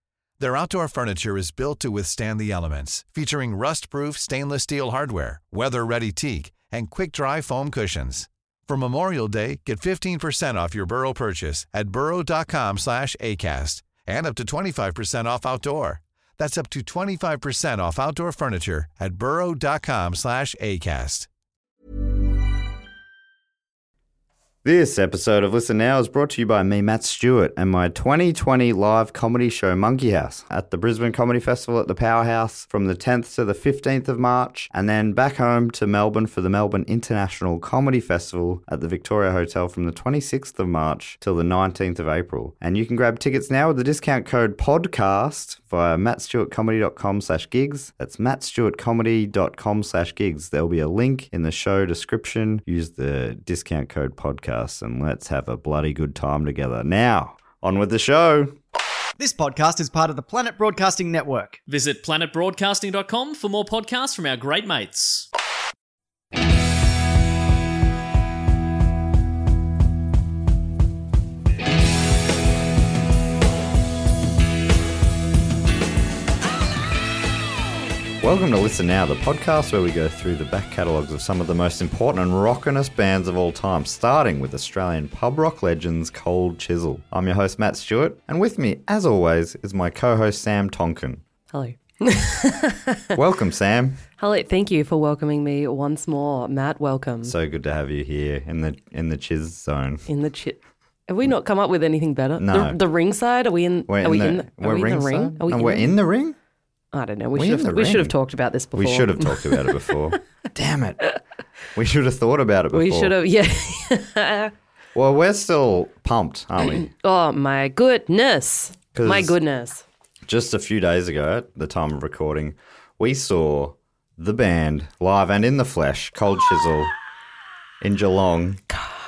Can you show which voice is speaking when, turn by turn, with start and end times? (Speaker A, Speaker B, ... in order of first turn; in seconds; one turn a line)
Speaker A: 0.4-21.3
Speaker B: 24.6-58.6
Speaker C: 59.2-61.6
Speaker D: 61.7-65.3
Speaker B: 78.2-91.2
Speaker E: 91.5-93.2
Speaker B: 93.1-94.0
Speaker E: 94.2-97.3
Speaker B: 97.2-100.0
Speaker E: 100.1-106.0
Speaker B: 102.4-102.8
Speaker B: 103.9-106.3
Speaker E: 106.9-109.8
Speaker B: 107.3-108.1
Speaker B: 108.7-111.0
Speaker B: 111.7-113.1
Speaker E: 112.7-114.5
Speaker B: 114.9-116.9
Speaker E: 116.7-119.8
Speaker B: 118.9-119.3
Speaker B: 120.3-126.9
Speaker B: 127.8-128.6